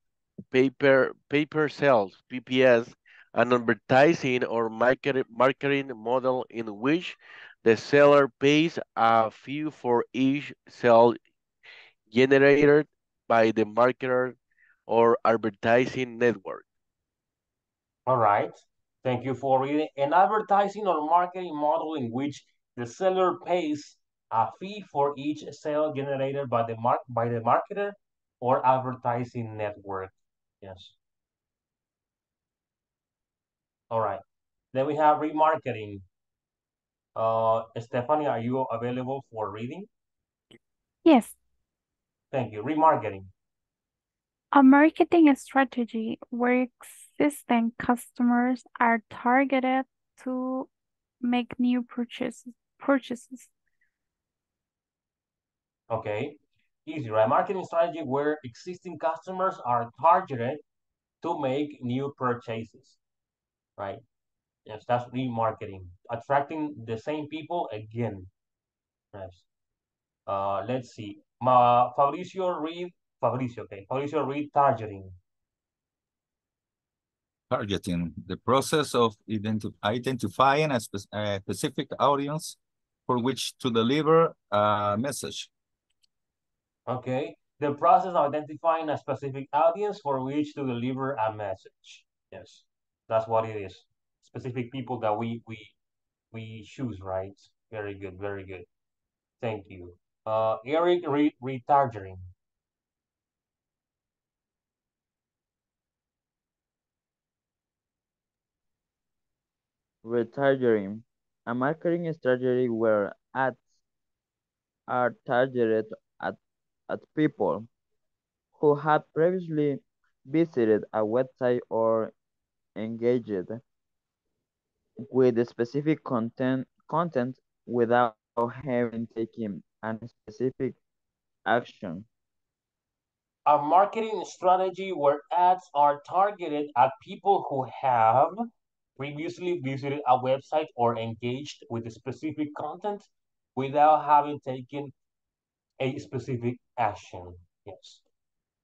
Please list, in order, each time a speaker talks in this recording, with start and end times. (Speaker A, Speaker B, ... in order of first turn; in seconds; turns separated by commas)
Speaker A: 0.5-11.2, Speaker A: 12.1-14.4, Speaker A: 14.9-16.6, Speaker B: 18.1-31.0, Speaker B: 33.9-34.2, Speaker B: 34.7-36.0, Speaker B: 37.2-39.9, Speaker C: 41.0-41.4, Speaker B: 42.3-43.3, Speaker C: 44.5-50.7, Speaker C: 51.2-53.5, Speaker B: 55.9-60.6, Speaker B: 61.2-63.0, Speaker B: 63.8-64.0, Speaker B: 64.7-68.3, Speaker B: 69.1-69.5, Speaker B: 70.3-75.1, Speaker D: 77.5-85.5, Speaker B: 86.9-95.8, Speaker B: 96.3-98.7, Speaker B: 99.4-102.2, Speaker E: 110.0-113.6, Speaker E: 114.9-116.4, Speaker E: 116.9-117.7, Speaker E: 118.6-122.1, Speaker E: 122.8-123.6, Speaker E: 125.0-130.8, Speaker E: 131.4-132.1, Speaker B: 133.5-138.4, Speaker B: 139.0-144.9, Speaker B: 145.8-148.0